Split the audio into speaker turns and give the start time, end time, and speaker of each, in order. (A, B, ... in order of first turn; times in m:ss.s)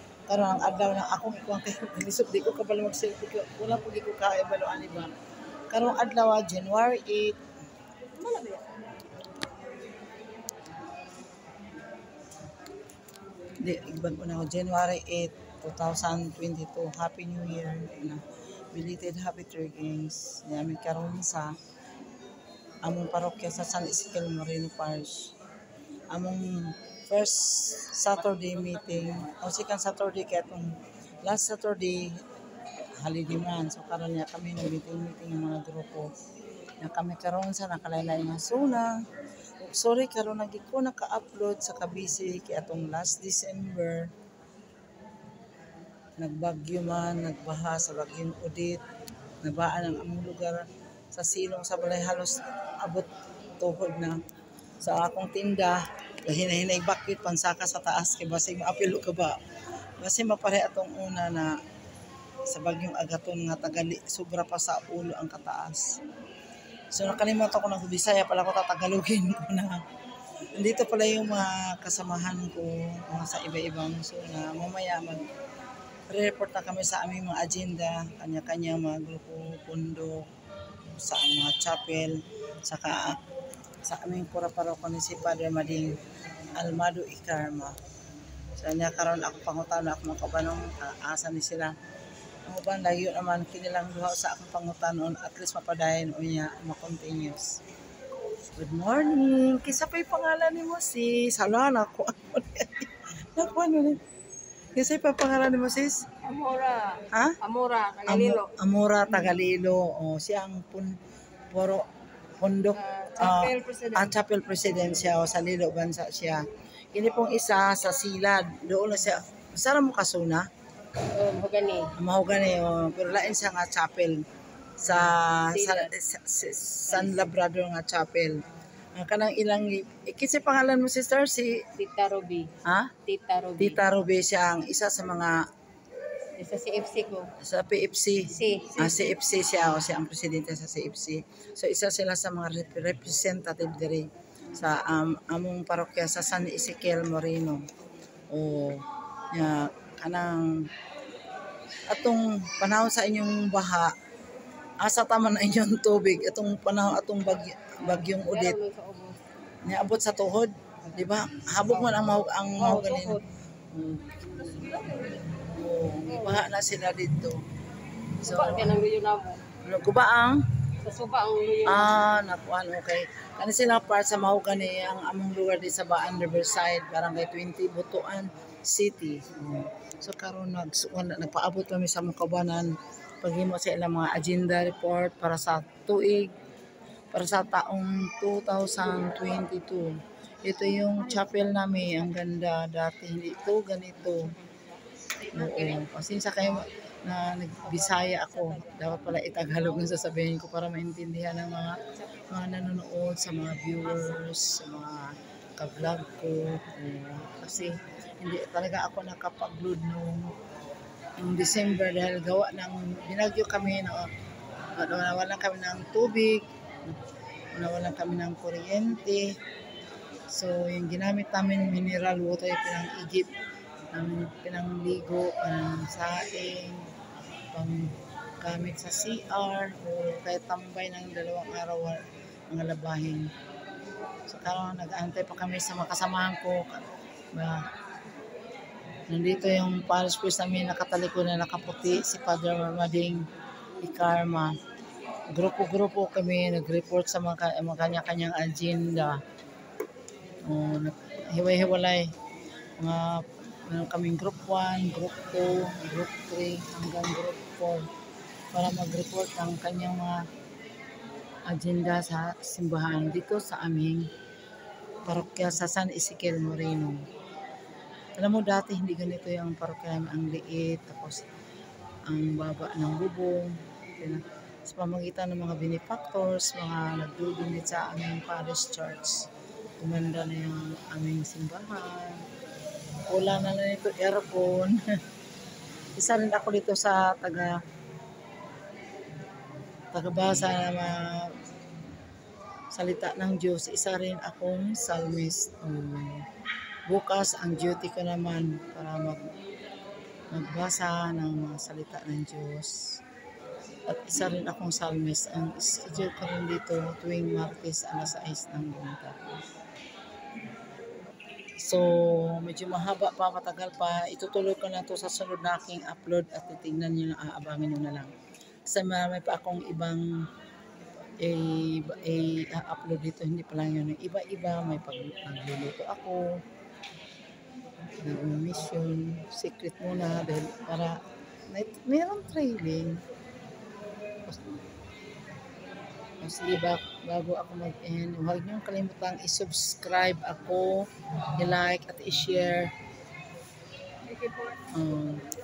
0:00.3-0:05.1 A
0:05.7-0:07.4 A
0:08.2-0:08.7 B
0:13.6-0:18.2 A
0:18.7-0:21.6 A
0:22.8-0:25.3 A
0:26.1-0:32.2 A
0:33.0-0:36.1 A
0:36.8-0:38.9 A
0:39.6-0:44.1 A
0:46.2-0:48.8 A
0:49.4-0:53.1 A
0:53.6-0:54.2 A
0:54.8-0:59.4 A
1:00.0-1:01.5 A
1:02.5-1:06.0 A
1:06.9-1:09.8 A
1:10.6-1:15.3 A
1:16.1-1:20.2 A
1:21.0-1:23.2 A
1:23.9-1:25.9 A
1:26.6-1:27.8 A
1:28.6-1:31.7 A
1:32.5-1:37.6 A
1:38.6-1:44.0 A
1:44.8-1:46.1 A
1:46.2-1:48.5 B
1:47.1-1:47.4 A
1:48.1-1:51.0 A
1:51.5-1:51.9 A
1:52.4-2:00.5 A
1:52.8-1:54.1 B
2:01.1-2:01.9 B
2:02.0-2:04.2 A
2:04.8-2:08.4 A
2:05.5-2:05.9 B
2:06.9-2:07.3 B
2:09.0-2:11.6 A
2:11.8-2:12.5 B
2:12.6-2:12.9 A
2:13.1-2:13.8 B
2:13.6-2:15.4 A
2:16.4-2:17.3 B
2:17.4-2:27.6 A
2:18.3-2:19.1 B
2:28.3-2:30.5 A
2:31.9-2:33.9 A
2:34.8-2:38.6 A
2:37.8-2:39.2 B
2:39.6-2:43.2 A
2:42.6-2:43.2 B
2:43.7-2:44.3 A
2:44.5-2:45.2 B
2:45.3-2:47.4 A
2:46.1-2:46.4 B
2:48.2-2:48.8 A
2:48.2-2:49.4 B
2:49.6-2:50.4 A
2:50.8-2:52.1 B
2:51.6-3:06.3 A
3:07.1-3:14.3 A
3:11.0-3:12.2 B
3:14.2-3:15.9 B
3:15.4-3:30.3 A
3:17.6-3:20.0 B
3:22.0-3:22.5 B
3:31.2-3:34.1 A
3:34.8-3:37.0 A
3:37.5-3:39.4 A
3:40.3-3:43.3 A
3:43.9-3:46.9 A
3:47.5-3:53.3 A
3:54.3-3:57.6 A
3:59.1-4:03.2 A
4:03.8-4:04.6 A
4:05.3-4:09.2 A
4:10.5-4:12.1 A
4:12.8-4:17.8 A
4:18.5-4:20.2 A
4:21.5-4:24.1 A
4:25.1-4:27.0 A
4:28.2-4:31.2 A
4:32.1-4:39.3 A
4:39.8-4:42.2 A
4:43.1-4:44.8 A
4:46.0-4:47.6 A
4:49.9-4:51.3 A
4:52.7-4:56.2 A
4:56.9-4:59.2 A
5:00.3-5:02.8 A
5:03.9-5:09.3 A
5:11.6-5:18.1 A
5:18.7-5:20.0 A
5:21.2-5:26.2 A
5:28.0-5:33.0 A
5:36.2-5:42.7 A
5:44.1-5:44.6 B
5:44.7-5:45.2 A